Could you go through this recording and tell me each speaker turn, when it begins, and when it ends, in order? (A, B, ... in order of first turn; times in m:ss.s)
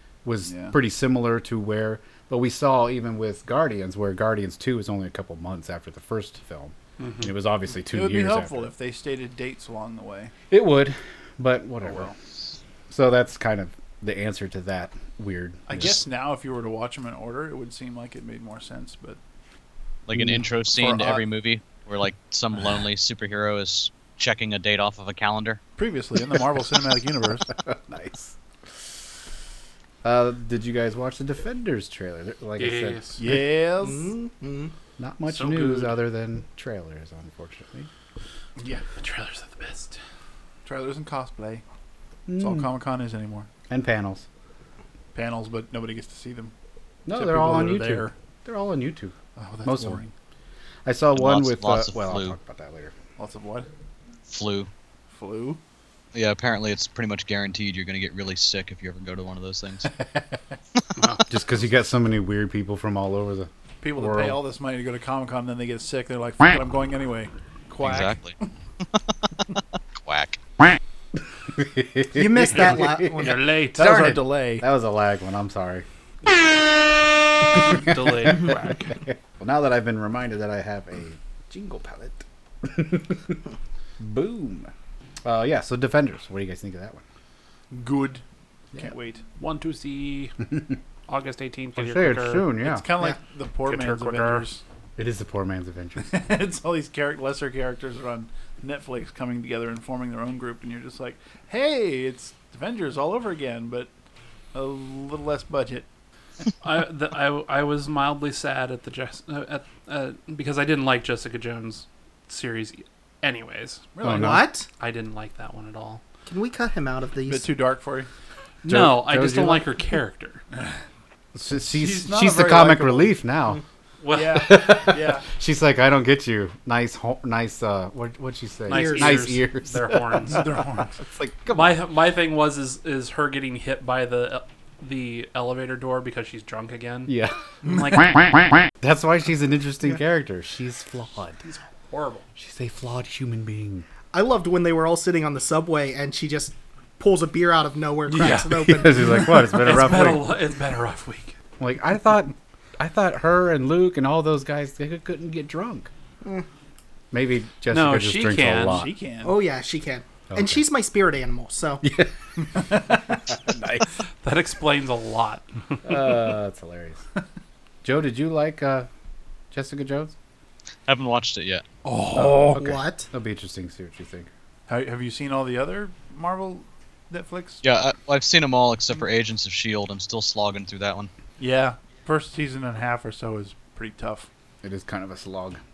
0:00.2-0:08.7 A
0:00.4-0:00.8 B
0:07.0-0:07.3 C
0:07.9-0:10.3 B
0:10.5-0:12.1 A
0:11.8-0:12.1 B
0:12.9-0:16.0 A
0:15.7-0:19.2 B
0:20.1-0:25.6 D
0:20.7-0:21.2 B
0:25.8-0:27.5 B
0:27.6-0:28.8 A
0:30.0-0:33.3 A
0:32.6-0:33.2 C
0:33.2-0:34.1 B
0:33.8-0:34.7 E
0:35.0-0:37.9 A
0:35.4-0:35.8 B
0:35.4-0:35.8 C
0:38.6-0:38.8 B
0:39.0-0:40.0 C
0:40.6-0:41.6 B
0:42.3-0:42.7 A
0:42.4-0:43.5 B
0:43.7-0:44.2 A
0:45.1-0:46.5 B
0:47.0-0:50.0 A
0:47.1-0:48.1 B
0:49.4-0:50.1 B
0:50.8-0:52.9 A
0:51.2-0:52.4 D
0:53.2-0:53.7 B
0:54.3-0:54.7 D
0:55.1-0:55.6 B
0:56.1-0:59.9 D
1:01.3-1:04.4 A
1:03.8-1:08.2 B
1:07.8-1:08.4 D
1:10.0-1:10.4 D
1:11.5-1:15.8 A
1:12.1-1:13.4 E
1:13.2-1:13.8 C
1:13.5-1:14.7 B
1:17.6-1:18.9 C
1:17.6-1:23.4 A
1:24.0-1:24.7 A
1:25.2-1:27.0 A
1:27.7-1:28.2 B
1:28.7-1:29.2 B
1:29.4-1:30.4 C
1:31.1-1:32.5 C
1:31.8-1:32.9 A
1:32.6-1:34.6 B
1:33.6-1:34.5 C
1:35.0-1:36.2 A
1:36.1-1:43.9 B
1:44.5-1:45.9 B
1:46.6-1:54.0 C
1:53.9-1:54.4 B
1:54.0-1:54.4 A
1:54.0-1:54.7 E
1:54.7-1:56.0 C
1:56.3-1:57.6 E
1:57.2-1:58.1 B
1:58.6-2:00.4 C
1:58.6-1:59.7 A
2:01.3-2:03.6 A
2:01.6-2:03.2 B
2:04.0-2:04.7 C
2:04.1-2:05.2 B
2:04.3-2:11.8 A
2:08.7-2:10.4 C
2:08.7-2:09.2 E
2:10.3-2:11.0 B
2:11.5-2:18.2 C
2:17.1-2:17.4 A
2:18.2-2:21.4 A
2:21.4-2:22.2 C
2:22.4-2:23.8 A
2:24.1-2:29.2 E
2:28.1-2:28.5 C
2:28.1-2:30.3 A
2:29.6-2:31.3 C
2:31.6-2:35.9 A
2:37.1-2:38.9 A
2:37.7-2:38.8 C
2:38.7-2:39.4 B
2:39.2-2:41.9 E
2:40.3-2:40.6 A
2:41.8-2:42.1 A
2:43.3-2:43.9 A
2:44.2-2:46.0 C
2:45.8-2:47.0 A
2:47.8-2:48.9 A
2:49.5-2:50.1 A
2:50.9-2:51.6 D
2:51.8-2:52.6 B
2:52.1-2:54.3 A
2:52.5-2:53.1 E
2:54.7-2:57.6 B
2:57.6-3:01.1 D
3:01.4-3:04.3 B
3:04.6-3:05.6 A